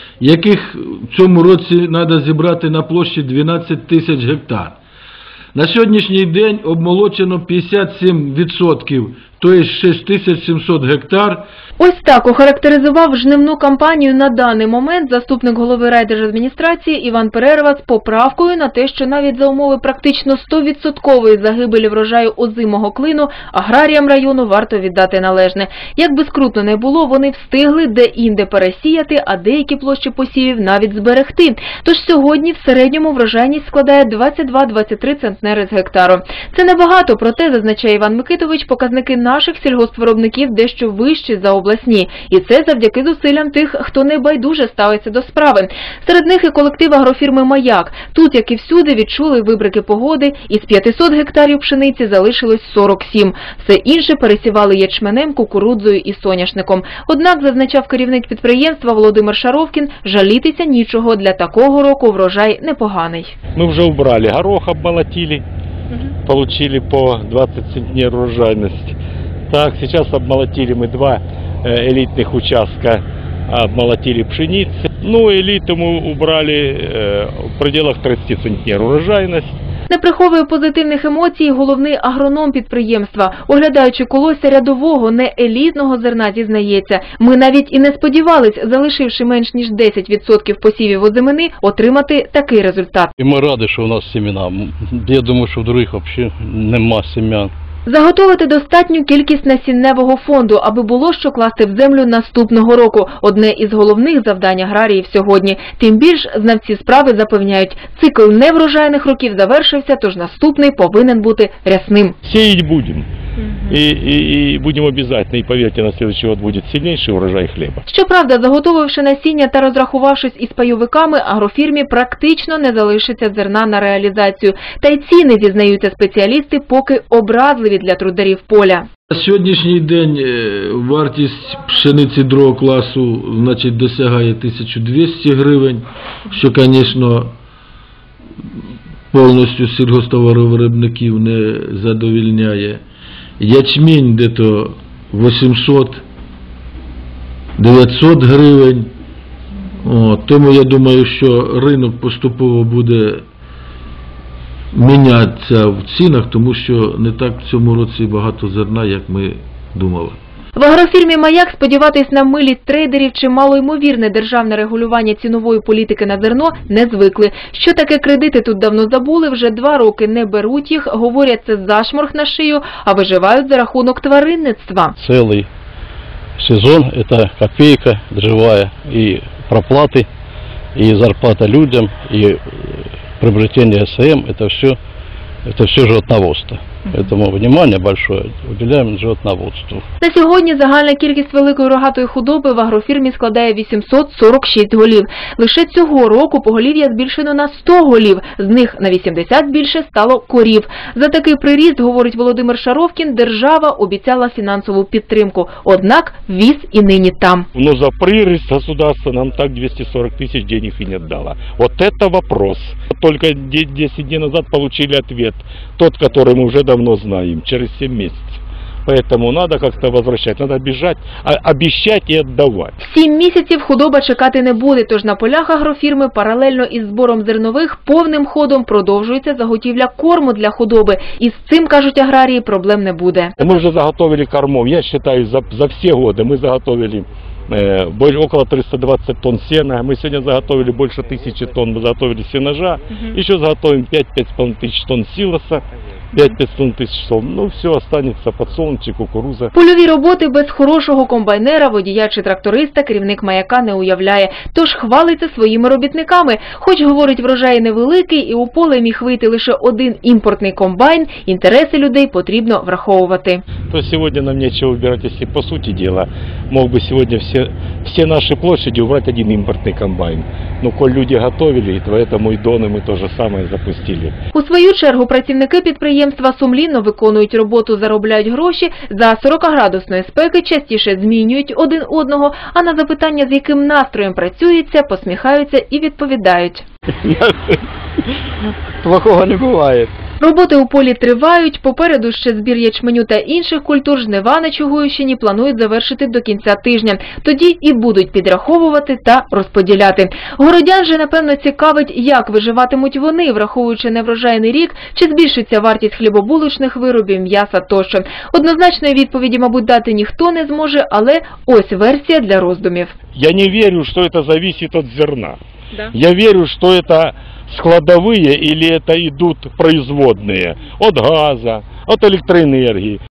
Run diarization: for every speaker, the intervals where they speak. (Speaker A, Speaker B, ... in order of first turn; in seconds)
Speaker A: 0.2-4.8, 5.5-11.5, 129.1-137.3, 139.1-142.8, 143.4-146.0, 147.6-148.9, 149.8-153.2, 154.7-160.2
Speaker B: 11.8-63.3, 79.9-93.1, 97.8-112.2, 117.9-128.8, 160.6-174.9, 190.0-207.5, 222.8-233.4, 249.5-263.4, 274.3-286.6, 290.2-312.9
Speaker C: 63.5-65.4, 66.2-69.0, 69.5-79.6, 112.2-113.1, 113.7-117.8, 207.5-222.7, 233.4-249.5, 263.7-274.2, 313.1-315.4, 315.9-323.0
Speaker D: 93.2-97.5, 175.0-175.5, 176.4-180.1, 180.7-184.8, 185.4-189.8, 289.0-289.5